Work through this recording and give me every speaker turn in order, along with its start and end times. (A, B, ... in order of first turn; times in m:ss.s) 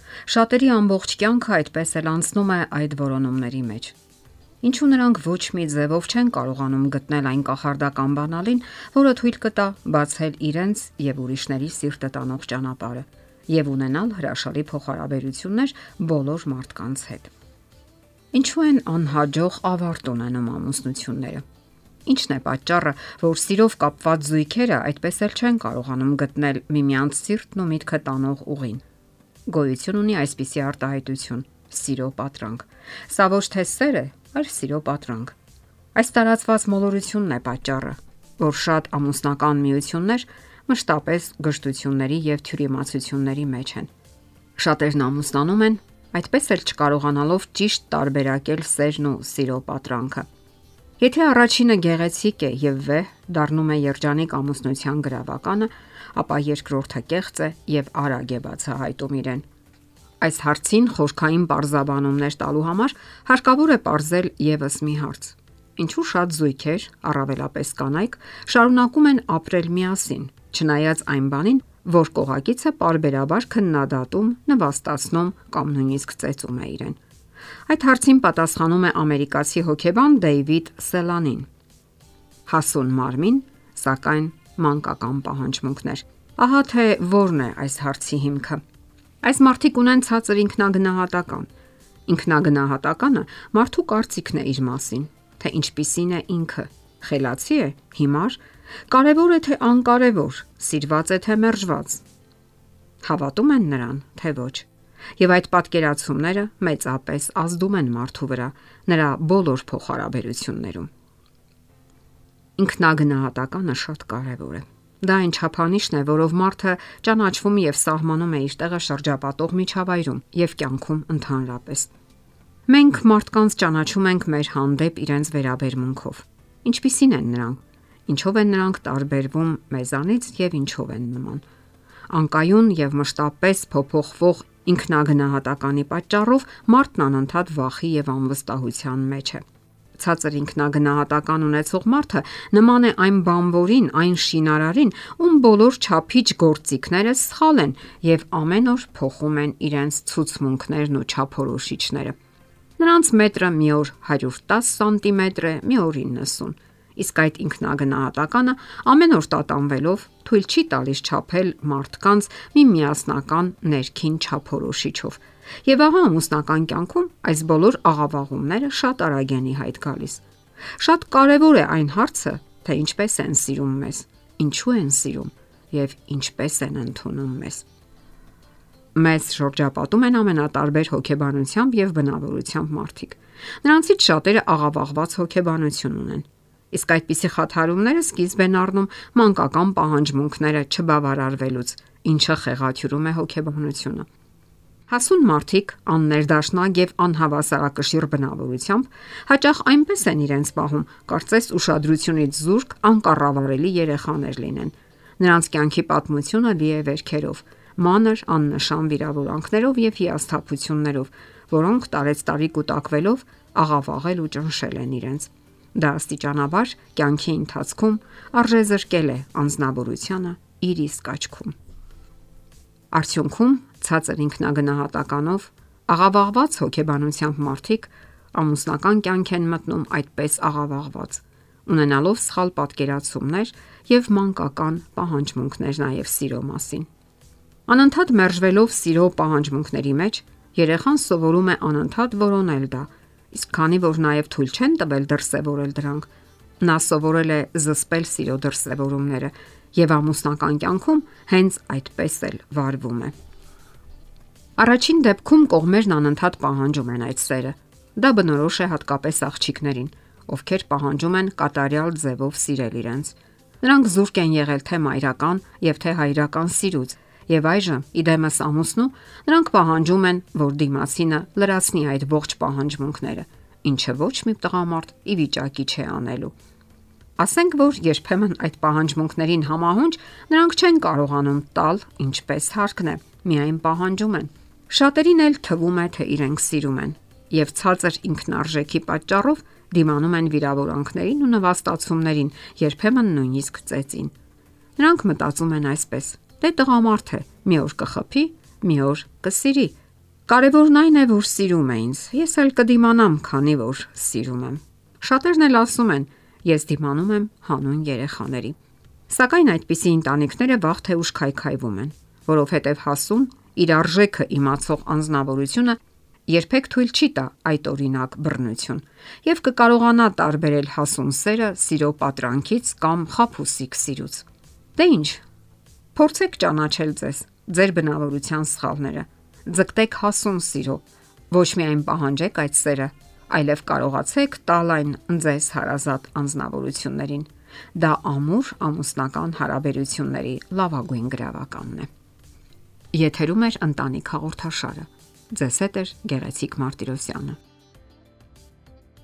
0:00.3-0:03.9 A
0:04.6-0:17.3 A
0:18.3-0:21.4 A
0:22.0-0:28.8 A
0:29.4-0:35.3 A
0:35.9-0:43.9 A
0:44.6-0:50.2 A
0:51.0-0:59.4 A
1:00.2-1:17.0 A
1:17.7-1:21.5 A
1:22.5-1:28.6 A
1:29.2-1:31.5 A
1:32.1-1:42.0 A
1:43.0-1:44.7 A
1:45.2-1:50.9 A
1:52.6-2:01.9 A
2:02.7-2:11.4 A
2:12.1-2:19.4 A
2:20.0-2:32.2 A
2:32.8-2:50.2 A
2:50.8-2:57.6 A
2:58.9-3:14.1 A
3:14.9-3:41.5 A
3:42.9-3:56.9 A
3:57.7-4:06.1 A
4:06.6-4:13.1 A
4:14.6-4:36.3 A
4:37.2-4:54.1 A
4:54.8-4:59.7 A
5:00.3-5:08.6 A
5:09.1-5:25.2 A
5:25.9-5:41.9 A
5:42.9-5:47.4 A